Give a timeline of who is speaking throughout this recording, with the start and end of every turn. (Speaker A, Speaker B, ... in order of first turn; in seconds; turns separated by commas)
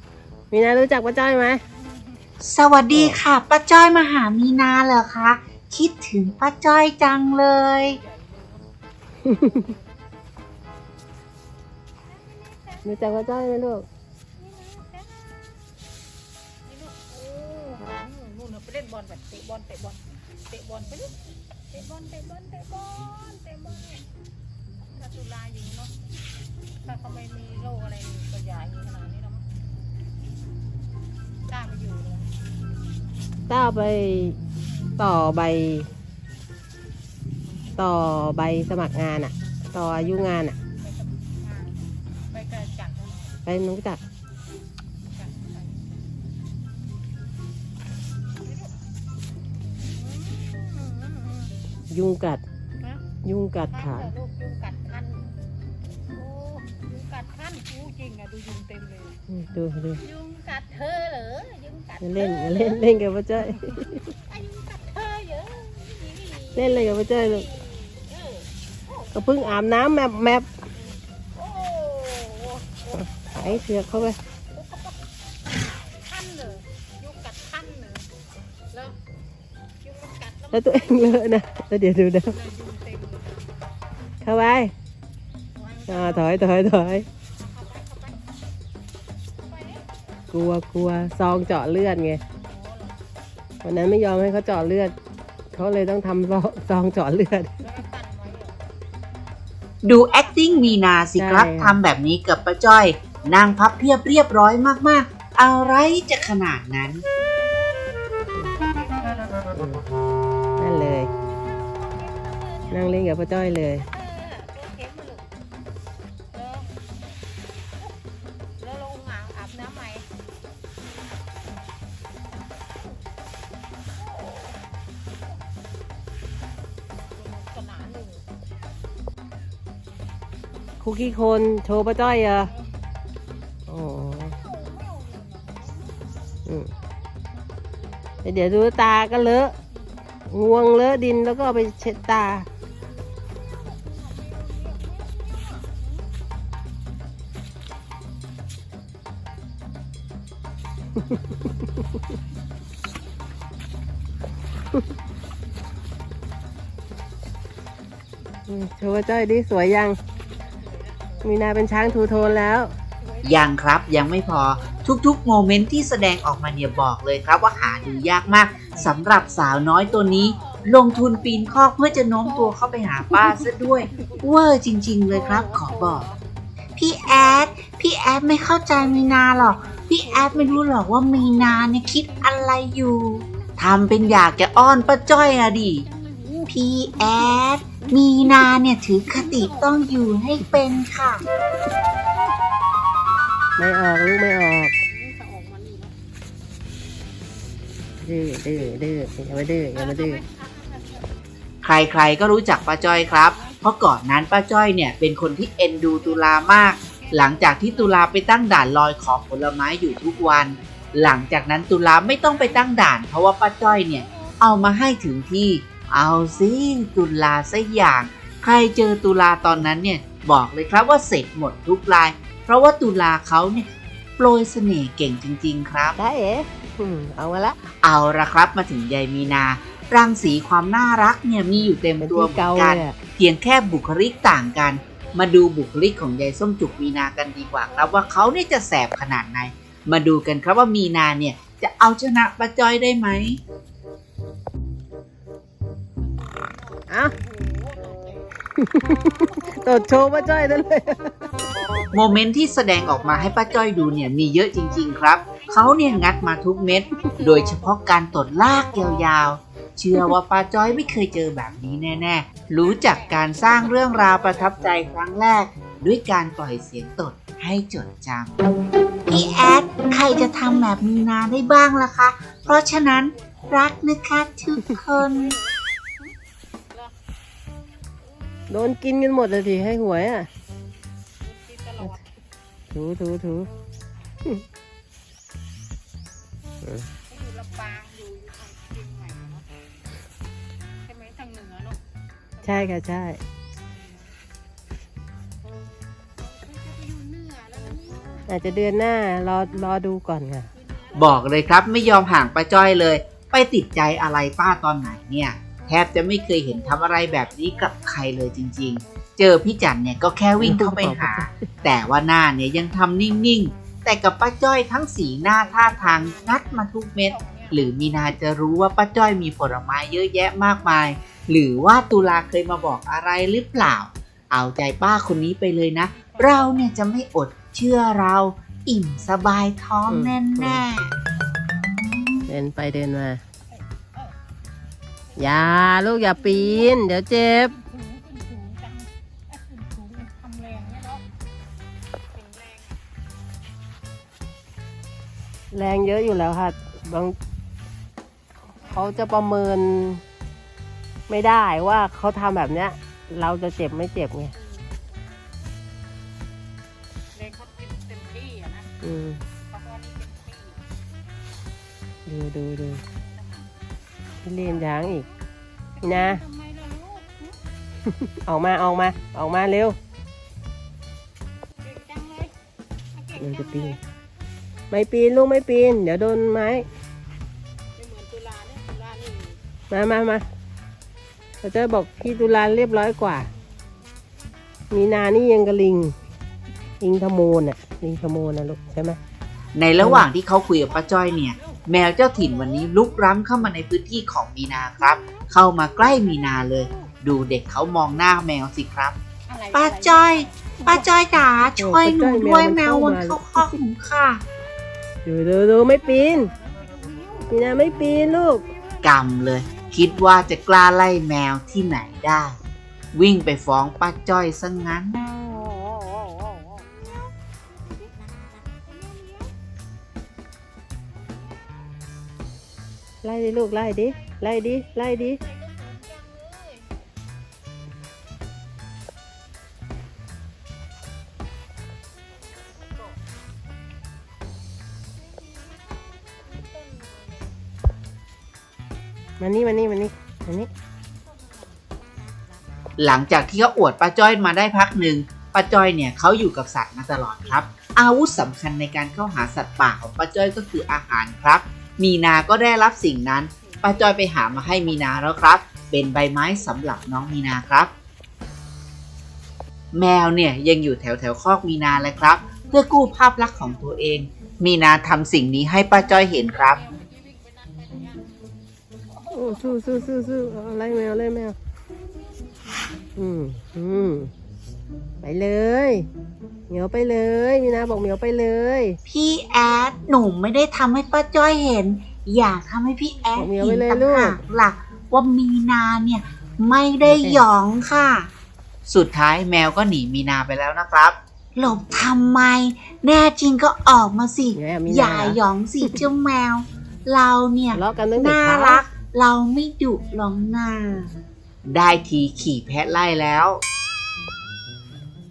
Speaker A: 0.5-1.6, Speaker B: 1.8-2.2, Speaker C: 2.4-8.0, Speaker A: 2.9-3.2, Speaker B: 7.8-10.0, Speaker A: 9.2-9.7, Speaker B: 12.1-13.1, Speaker A: 12.8-13.9, Speaker B: 14.4-15.1, Speaker B: 16.7-21.2, Speaker B: 21.7-24.1, Speaker B: 24.9-25.9, Speaker B: 26.8-29.5, Speaker B: 31.5-32.4, Speaker A: 33.5-34.4, Speaker A: 35.0-35.9, Speaker A: 37.8-40.6, Speaker B: 40.8-43.4, Speaker A: 43.5-44.0, Speaker B: 45.1-45.8, Speaker B: 48.4-48.8, Speaker B: 49.8-51.5, Speaker A: 51.9-52.4, Speaker A: 53.2-54.1, Speaker B: 53.7-55.4, Speaker B: 56.1-59.2, Speaker A: 59.3-60.0, Speaker B: 60.0-63.0, Speaker A: 62.0-64.1, Speaker B: 64.3-69.2, Speaker A: 66.5-67.5, Speaker A: 69.1-70.5, Speaker B: 71.3-75.0, Speaker A: 73.0-74.2, Speaker B: 75.5-78.1, Speaker B: 78.7-79.0, Speaker B: 79.8-81.3, Speaker A: 80.5-82.4, Speaker B: 82.2-83.5, Speaker A: 84.2-84.7, Speaker B: 85.5-86.5, Speaker A: 85.9-87.1, Speaker B: 87.4-88.2, Speaker B: 89.4-89.9, Speaker A: 90.3-92.2, Speaker B: 92.4-93.0, Speaker A: 93.6-95.0, Speaker A: 95.5-97.6, Speaker B: 97.6-98.7, Speaker C: 99.8-107.0, Speaker B: 100.1-101.0, Speaker A: 101.2-101.8, Speaker B: 103.3-103.6, Speaker B: 105.6-106.4, Speaker B: 107.4-109.5, Speaker A: 109.5-109.8, Speaker A: 110.6-111.1, Speaker B: 111.4-115.3, Speaker A: 112.7-113.9, Speaker B: 116.3-116.9, Speaker B: 118.6-120.1, Speaker B: 124.0-124.6, Speaker B: 127.1-128.3, Speaker A: 130.8-132.5, Speaker A: 133.7-134.3, Speaker B: 134.2-136.1, Speaker A: 136.5-136.7, Speaker A: 138.2-139.6, Speaker A: 140.3-142.5, Speaker B: 143.3-146.1, Speaker A: 158.5-160.0, Speaker B: 160.1-164.9, Speaker A: 161.2-162.7, Speaker C: 163.2-176.1, Speaker B: 167.6-171.6, Speaker B: 172.2-173.3, Speaker B: 173.9-174.3, Speaker B: 175.1-176.2, Speaker C: 176.8-185.8, Speaker B: 177.0-177.7, Speaker B: 178.7-182.5, Speaker B: 183.1-188.6, Speaker C: 186.5-191.2, Speaker B: 189.1-189.9, Speaker A: 193.6-194.7, Speaker B: 194.9-196.0, Speaker A: 198.1-200.2, Speaker B: 199.5-201.3, Speaker C: 201.6-226.0, Speaker B: 202.7-203.7, Speaker B: 205.6-208.1, Speaker B: 209.9-212.8, Speaker B: 213.6-215.0, Speaker B: 216.2-216.6, Speaker A: 226.0-227.6, Speaker C: 227.8-243.4, Speaker B: 229.2-231.1, Speaker A: 232.0-233.0, Speaker B: 233.6-238.5, Speaker B: 246.0-248.4, Speaker A: 246.9-247.1, Speaker A: 248.6-251.2, Speaker C: 251.9-268.4, Speaker B: 252.9-254.1, Speaker B: 254.7-257.8, Speaker B: 262.4-264.7, Speaker C: 269.1-275.3, Speaker B: 272.5-273.8, Speaker B: 274.7-276.1, Speaker B: 278.2-278.5, Speaker A: 278.5-280.3, Speaker B: 281.2-282.1, Speaker A: 282.7-283.5, Speaker A: 286.6-286.9, Speaker B: 287.1-289.5, Speaker B: 290.9-291.8, Speaker B: 292.4-292.9, Speaker A: 292.4-293.2, Speaker B: 293.7-294.1, Speaker B: 296.2-298.3, Speaker A: 298.3-300.5, Speaker B: 300.5-301.4, Speaker C: 300.9-330.9, Speaker B: 306.0-308.3, Speaker A: 310.4-311.5, Speaker B: 315.2-317.8, Speaker B: 325.9-326.7, Speaker A: 329.9-330.7, Speaker A: 332.3-333.2, Speaker B: 333.5-334.2, Speaker B: 335.1-336.8, Speaker A: 335.2-337.5, Speaker B: 337.4-341.1, Speaker B: 342.1-342.8, Speaker A: 345.5-347.2, Speaker A: 348.6-350.0, Speaker A: 351.1-354.3, Speaker B: 354.4-354.8, Speaker B: 357.1-358.7, Speaker A: 358.8-359.2, Speaker B: 359.4-360.6, Speaker A: 362.1-362.8, Speaker B: 363.0-363.5, Speaker A: 364.2-365.1, Speaker B: 364.3-365.1, Speaker B: 365.8-367.4, Speaker A: 365.8-366.2, Speaker A: 368.0-369.8, Speaker B: 371.6-372.4, Speaker B: 372.9-373.8, Speaker A: 373.2-373.8, Speaker A: 374.7-376.7, Speaker B: 377.8-379.4, Speaker A: 379.7-380.2, Speaker A: 381.4-383.3, Speaker A: 384.7-385.9, Speaker A: 386.8-389.0, Speaker C: 389.6-399.0, Speaker A: 389.8-390.1, Speaker B: 390.4-393.0, Speaker B: 395.0-396.9, Speaker B: 399.3-401.2, Speaker C: 399.5-404.2, Speaker A: 401.6-403.5, Speaker A: 405.1-406.3, Speaker B: 405.7-407.5, Speaker A: 407.3-408.5, Speaker B: 408.4-410.3, Speaker C: 408.8-412.4, Speaker C: 412.9-415.1, Speaker B: 415.3-417.1, Speaker B: 417.7-419.3, Speaker A: 423.0-425.2, Speaker B: 424.9-426.7, Speaker B: 432.4-433.0, Speaker B: 435.1-437.4, Speaker A: 439.2-440.5, Speaker B: 440.9-442.1, Speaker C: 442.8-457.7, Speaker B: 447.0-447.5, Speaker B: 453.3-455.4, Speaker B: 456.3-457.4, Speaker C: 459.7-466.6, Speaker B: 462.4-464.0, Speaker B: 465.8-468.3, Speaker B: 468.9-469.9, Speaker A: 469.1-471.4, Speaker A: 473.0-474.1, Speaker A: 475.0-475.9, Speaker A: 476.5-478.8, Speaker C: 478.9-488.1, Speaker A: 483.2-484.2, Speaker A: 486.8-487.2, Speaker C: 488.7-503.4, Speaker A: 494.3-495.8, Speaker A: 497.5-498.6, Speaker B: 499.8-500.3